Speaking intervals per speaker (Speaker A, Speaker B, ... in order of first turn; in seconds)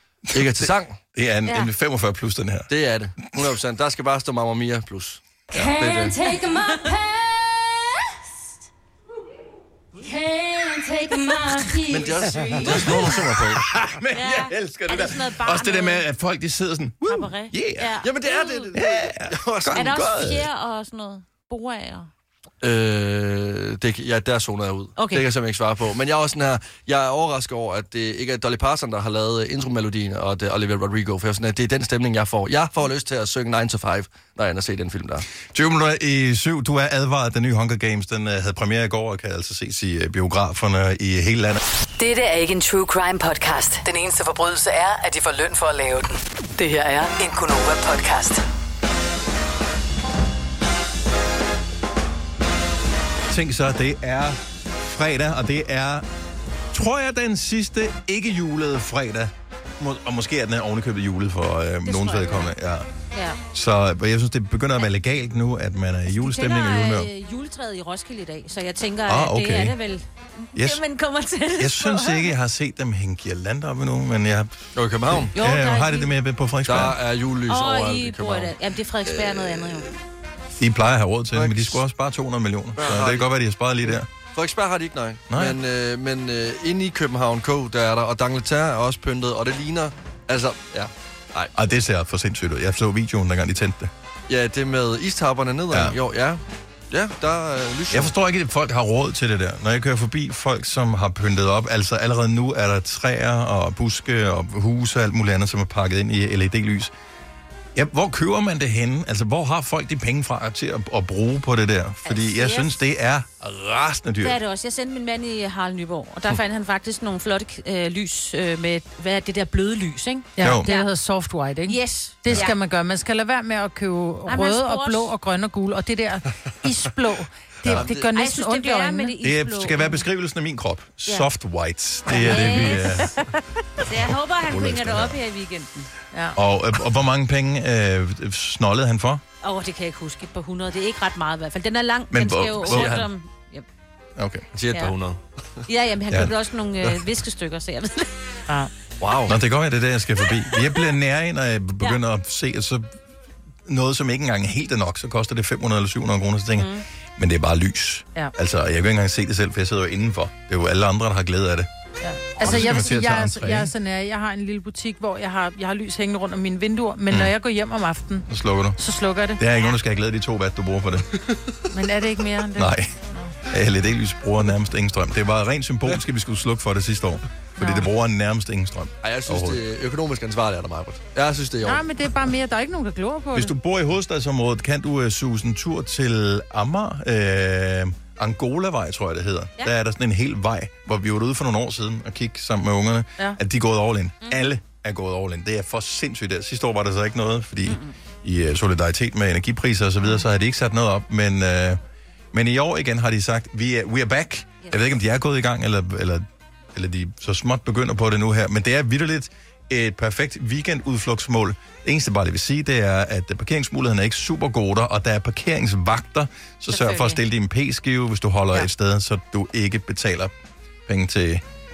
Speaker A: 0.3-1.0, 2.7-6.2, 11.8-13.6, 18.0-20.3, 22.6-35.2, 74.8-75.3, 76.7-78.5, 79.0-80.0, 81.3-81.8, 82.8-83.3, 83.8-91.5, 94.3-98.1, 127.7-128.0, 142.6-143.1, 144.5-145.6, 149.0-149.4, 179.0-181.8
Speaker B: 0.3-2.7, 13.5-18.0, 18.7-20.5, 35.5-41.6, 53.3-56.0, 56.7-62.9, 63.5-67.1, 69.1-69.8, 70.5-70.8, 71.6-74.5, 75.1-77.0, 80.6-84.1, 85.3-85.6, 91.5-93.9, 95.7-96.0, 97.9-106.9, 107.7-114.4, 120.4-120.7, 129.2-133.2, 134.4-135.2, 136.3-139.2, 142.1-143.0, 144.2-144.5, 146.1-147.0, 149.2-152.9, 153.7-161.7, 162.4-163.7, 168.3-168.8, 169.4-171.1, 172.6-172.9, 173.4-179.6, 183.3-201.8, 202.3-220.3, 220.9-221.4
Speaker C: 5.5-7.7, 10.1-12.1
Speaker D: 6.5-6.8, 14.1-16.0, 17.1-18.7, 19.7-22.1, 25.0-25.3, 61.9-62.5, 63.1-63.4, 66.1-72.3, 75.3-76.1, 77.5-79.9, 112.0-112.7, 114.2-120.9, 121.7-122.5, 124.3-125.1, 128.0-130.1, 132.1-133.1, 133.8-135.9, 139.4-143.7, 145.7-148.1, 156.6-156.8, 197.7-197.9, 216.7-217.2
Speaker E: 42.0-48.4
Speaker F: 120.4-129.1, 132.1-133.2, 136.1-136.4, 162.0-168.3, 168.8-169.4, 171.7-173.3, 177.6-177.9, 181.6-183.5